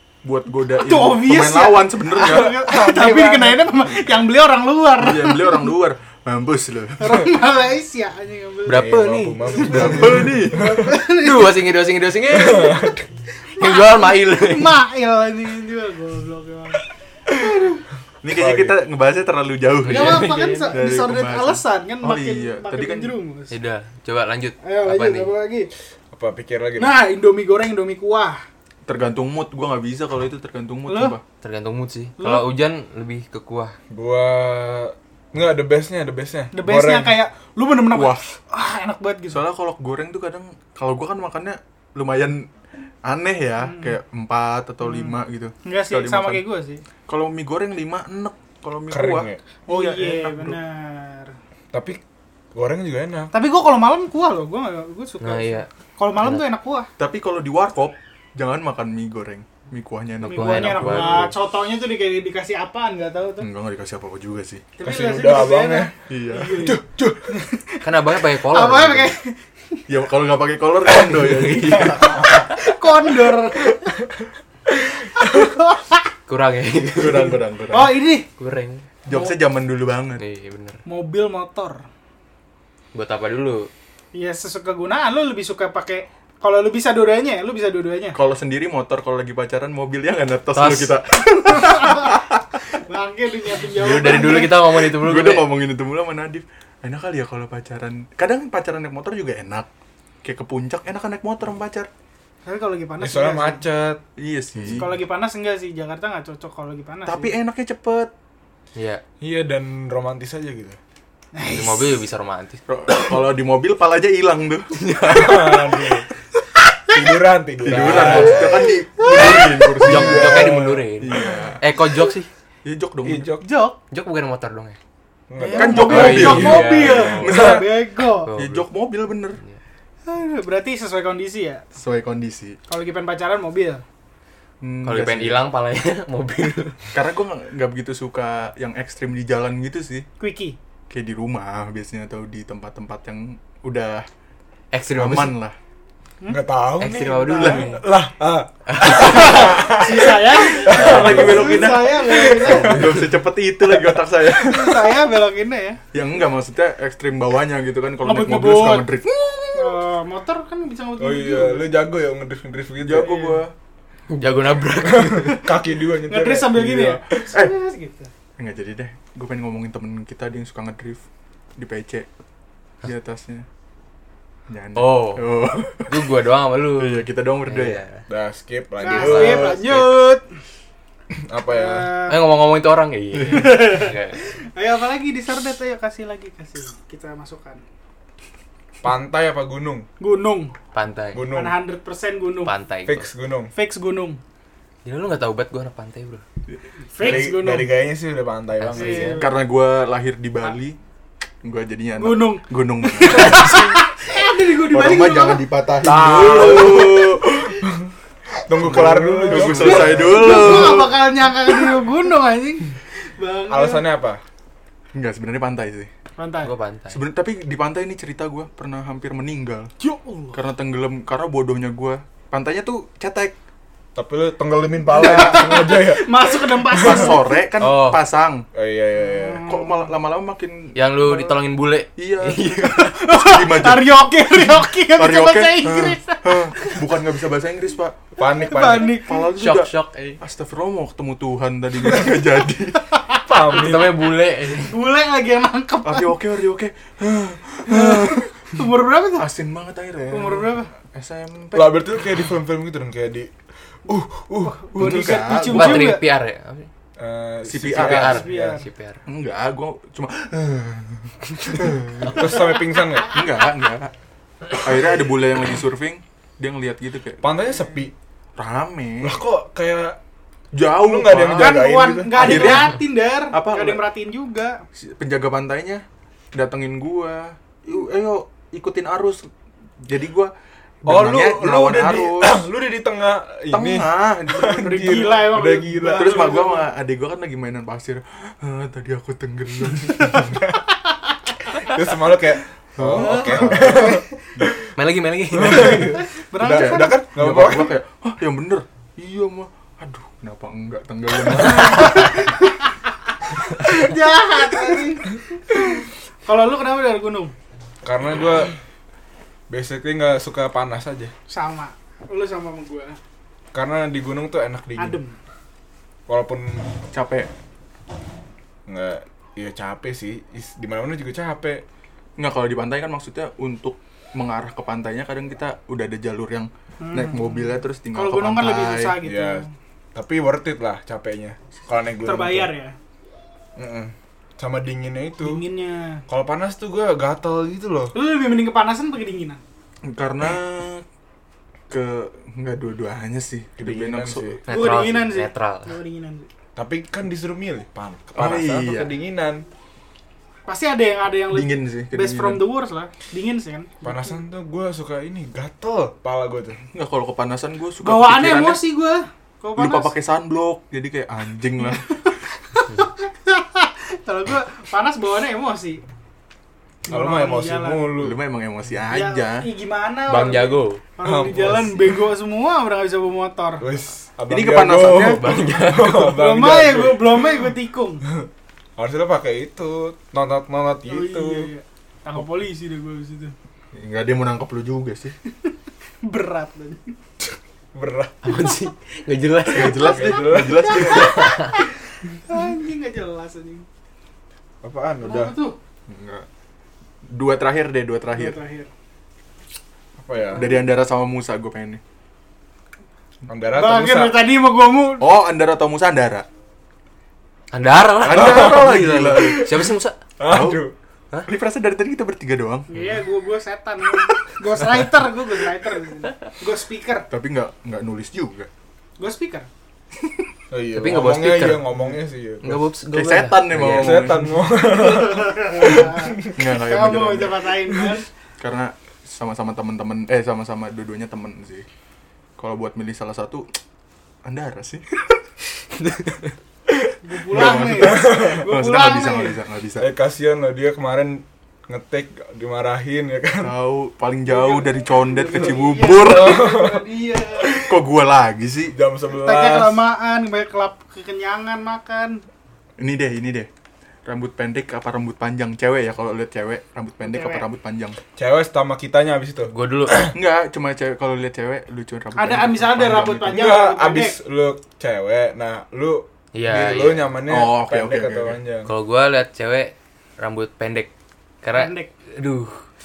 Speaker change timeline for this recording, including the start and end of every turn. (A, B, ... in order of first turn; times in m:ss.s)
0:00.2-0:02.6 A
0:00.8-0:05.7 B
0:02.4-0:03.6 C
0:05.0-0:07.2 A
0:07.0-0:11.6 B
0:08.7-0:10.1 D
0:08.7-0:10.9 C
0:09.6-0:10.7 A
0:11.0-0:12.9 D
0:12.3-0:13.1 C
0:13.6-0:17.8 B
0:13.6-0:14.8 D
0:18.2-0:23.2 A
0:18.3-0:18.8 C
0:19.8-0:20.8 D
0:19.9-0:23.5 B
0:23.5-0:25.3 D
0:24.6-0:25.7 B
0:26.1-0:27.0 C
0:26.8-0:28.4 B
0:28.9-0:31.2 A
0:30.9-0:31.2 B
0:31.4-0:33.8 D
0:32.2-0:32.5 B
0:33.9-0:37.2 C
0:36.5-0:39.4 B
0:37.9-0:38.2 A
0:39.3-0:42.5 A
0:43.0-0:46.4 A
0:43.6-0:44.0 B
0:44.8-0:45.1 B
0:45.6-0:46.8 B
0:47.1-0:50.6 A
0:48.9-0:49.4 C
0:49.7-0:51.4 B
0:51.7-0:52.0 C
0:52.5-0:53.3 C
0:53.3-0:56.9 B
0:55.2-0:56.4 D
0:57.0-1:01.3 A
1:00.2-1:03.5 B
1:00.2-1:01.3 D
1:03.4-1:04.6 A
1:04.8-1:06.8 B
1:04.8-1:05.9 C
1:06.1-1:06.7 A
1:06.6-1:07.4 C
1:07.3-1:09.8 B
1:07.8-1:09.1 D
1:09.9-1:12.3 A
1:11.0-1:12.0 D
1:11.7-1:12.3 C
1:12.0-1:14.0 B
1:15.2-1:16.1 B
1:16.3-1:17.4 D
1:16.9-1:18.0 A
1:17.7-1:18.3 B
1:18.4-1:18.9 D
1:19.1-1:20.2 A
1:19.1-1:19.4 B
1:20.2-1:20.8 D
1:20.9-1:21.8 B
1:22.9-1:23.7 D
1:24.1-1:28.2 B
1:28.1-1:32.4 A
1:30.5-1:31.0 D
1:31.5-1:32.1 B
1:32.7-1:34.6 B
1:33.7-1:35.5 D
1:34.7-1:39.7 A
1:40.2-1:41.9 A
1:42.4-1:43.6 B
1:43.0-1:44.0 C
1:44.2-1:45.0 A
1:44.8-1:47.3 B
1:47.1-1:48.1 A
1:48.8-1:49.0 D
1:49.2-1:50.8 C
1:51.4-1:51.9 B
1:51.4-1:52.6 D
1:52.7-1:54.8 A
1:54.8-1:55.8 D
1:55.0-1:56.0 C
1:56.9-1:58.6 C
1:57.6-2:01.6 A
1:57.7-1:58.7 D
1:59.0-1:59.7 B
1:59.2-2:02.3 D
1:59.8-2:00.8 C
2:02.6-2:03.3 A
2:03.0-2:03.5 C
2:03.4-2:03.8 B
2:03.9-2:04.8 D
2:05.3-2:07.6 C
2:05.4-2:08.3 B
2:05.6-2:07.8 A
2:05.7-2:07.5 D
2:08.2-2:08.7 D
2:08.3-2:09.4 A
2:10.1-2:11.6 B
2:11.8-2:12.6 A
2:12.7-2:13.8 B
2:14.6-2:15.4 A
2:14.8-2:16.9 D
2:16.9-2:20.1 A
2:20.2-2:20.6 B
2:20.9-2:24.1 A
2:24.7-2:25.4 D
2:24.9-2:25.6 A
2:26.3-2:33.1 C
2:26.8-2:27.8 D
2:27.0-2:27.8 B
2:28.7-2:29.6 D
2:28.9-2:33.0 B
2:30.7-2:34.8 A
2:30.7-2:31.4 D
2:33.7-2:34.6 C
2:34.4-2:35.8 B
2:35.9-2:39.8 A
2:38.0-2:38.9 B
2:39.5-2:41.7 B
2:41.0-2:43.4 C
2:42.8-2:43.5 A
2:44.1-2:45.5 D
2:44.8-2:47.3 C
2:46.1-2:48.1 B
2:48.4-2:51.0 A
2:51.6-2:52.1 A
2:52.8-2:53.5 A
2:54.5-2:57.8 A
2:54.8-2:58.0 D
2:58.1-2:59.8 C
2:58.8-3:00.2 B
2:58.9-2:59.9 D
3:01.1-3:02.0 C
3:01.5-3:02.2 B
3:02.1-3:04.2 D
3:03.3-3:04.0 B
3:04.5-3:07.6 B
3:08.8-3:09.9 C
3:10.0-3:10.5 B
3:10.7-3:11.3 D
3:11.1-3:11.6 C
3:11.3-3:12.5 B
3:12.4-3:13.1 D
3:12.9-3:13.5 C
3:13.5-3:14.2 B
3:14.8-3:16.2 D
3:16.9-3:17.7 B
3:17.0-3:19.2 C
3:18.6-3:19.1 D
3:18.8-3:19.3 B
3:19.1-3:20.8 A
3:21.4-3:23.8 A
3:22.0-3:25.5 B
3:24.7-3:27.6 A
3:25.8-3:27.8 C
3:26.2-3:26.7 D
3:28.4-3:30.8 C
3:28.5-3:31.0 A
3:29.3-3:33.9 B
3:33.5-3:34.2 C
3:34.9-3:35.9 A
3:36.2-3:36.5 B
3:36.4-3:37.0 D
3:36.9-3:39.7 A
3:39.8-3:40.4 B
3:40.3-3:43.4 A
3:44.0-3:47.2 C
3:44.9-3:47.3 B
3:46.8-3:48.5 A
3:47.6-3:48.0 D
3:48.5-3:49.5 C
3:49.0-3:49.9 B
3:49.4-3:51.4 A
3:50.8-3:52.9 D
3:52.0-3:58.0 A
3:52.6-3:56.8 B
3:58.2-3:59.0 C
3:58.4-3:59.3 B
3:58.9-4:02.8 A
3:59.4-4:00.2 D
4:02.9-4:03.7 B
4:03.3-4:04.1 C
4:03.5-4:04.8 D
4:04.5-4:06.1 B
4:05.8-4:08.6 A
4:07.7-4:09.3 B
4:09.2-4:11.9 A
4:10.1-4:10.7 B
4:11.5-4:13.3 C
4:13.9-4:15.1 C
4:14.5-4:16.0 B
4:14.7-4:16.0 A
4:15.4-4:16.7 D
4:17.0-4:18.5 C
4:17.4-4:18.2 A
4:17.7-4:19.0 D
4:18.0-4:18.7 B
4:19.1-4:22.4 A
4:22.0-4:23.1 C
4:23.0-4:23.9 A
4:24.5-4:27.4 A
4:27.2-4:27.9 C
4:28.4-4:29.2 A
4:29.0-4:30.0 C
4:30.5-4:32.8 A
4:30.6-4:32.6 C
4:31.4-4:34.6 B
4:33.3-4:33.8 A
4:34.8-4:39.3 A
4:39.8-4:40.3 A
4:40.8-4:42.5 A
4:40.9-4:46.4 C
4:43.5-4:45.0 A
4:44.4-4:46.7 B
4:45.9-4:50.4 A
4:50.2-4:50.6 C
4:51.6-4:54.6 C
4:52.8-4:53.9 A
4:53.0-4:54.2 B
4:54.8-4:56.0 D
4:55.3-4:57.8 C
4:55.5-4:57.0 B
4:56.4-5:02.2 A
5:01.6-5:02.7 B
5:03.6-5:07.3 B
5:07.8-5:08.5 C
5:09.5-5:11.1 C
5:11.3-5:13.0 B
5:13.5-5:15.0 C
5:14.8-5:15.2 B
5:16.1-5:16.7 C
5:16.9-5:17.3 A
5:18.7-5:21.6 C
5:22.2-5:29.0 A
5:26.8-5:29.5 B
5:29.0-5:32.5 C
5:32.0-5:32.8 B
5:33.6-5:35.4 C
5:35.2-5:36.0 B
5:36.1-5:38.0 C
5:37.9-5:39.4 B
5:39.8-5:40.8 A
5:41.7-5:44.4 A
5:43.6-5:44.4 C
5:44.5-5:45.8 D
5:44.5-5:46.3 B
5:46.6-5:49.4 C
5:48.2-5:48.9 A
5:50.5-5:54.1 B
5:51.3-5:52.5 A
5:53.8-5:56.6 C
5:56.7-5:58.6 A
5:57.8-5:59.9 B
5:59.6-6:02.0 A
6:01.7-6:05.8 B
6:06.9-6:07.9 B
6:06.9-6:08.2 C
6:08.0-6:09.5 A
6:08.9-6:13.7 B
6:10.1-6:10.8 D
6:11.0-6:12.0 C
6:13.6-6:17.5 C
6:14.3-6:15.3 A
6:15.0-6:16.0 D
6:15.9-6:18.0 B
6:18.1-6:21.5 C
6:20.9-6:23.3 B
6:23.7-6:25.2 A
6:25.5-6:27.0 B
6:27.7-6:28.2 C
6:28.2-6:30.2 D
6:29.4-6:31.4 A
6:29.7-6:31.5 C
6:30.4-6:33.7 B
6:30.9-6:31.6 D
6:34.6-6:35.4 C
6:35.0-6:35.6 B
6:35.9-6:36.3 A
6:37.1-6:38.4 A
6:38.1-6:38.7 B
6:40.0-6:40.5 C
6:40.3-6:41.8 A
6:43.3-6:44.2 C
6:43.5-6:45.1 B
6:45.0-6:46.3 A
6:47.5-6:50.0 D
6:48.0-6:49.7 A
6:48.1-6:50.7 C
6:50.3-6:50.7 A
6:51.3-6:52.7 A
6:52.7-6:57.1 B
6:52.7-6:53.0 D
6:57.1-6:58.5 A
6:59.0-6:59.5 B
7:00.5-7:02.7 C
7:00.7-7:01.7 D
7:02.4-7:04.3 D
7:02.9-7:04.5 A
7:03.5-7:06.4 C
7:04.6-7:08.1 B
7:06.4-7:07.5 A
7:08.4-7:11.7 A
7:12.4-7:13.6 A
7:14.2-7:15.0 A
7:15.9-7:16.1 D
7:17.0-7:19.4 B
7:17.3-7:19.9 A
7:17.3-7:18.4 C
7:19.8-7:23.6 C
7:23.4-7:26.6 A
7:24.3-7:27.7 B
7:25.7-7:26.8 C
7:27.5-7:28.8 A
7:28.7-7:29.8 C
7:29.1-7:32.2 B
7:32.8-7:33.5 A
7:34.0-7:38.0 A
7:37.0-7:37.4 B
7:38.2-7:40.2 C
7:39.5-7:40.1 D
7:40.1-7:43.5 A
7:42.2-7:44.2 B
7:43.3-7:48.7 C
7:46.3-7:47.1 D
7:47.3-7:48.4 A
7:48.7-7:50.9 D
7:51.4-7:52.6 D
7:51.5-7:51.9 B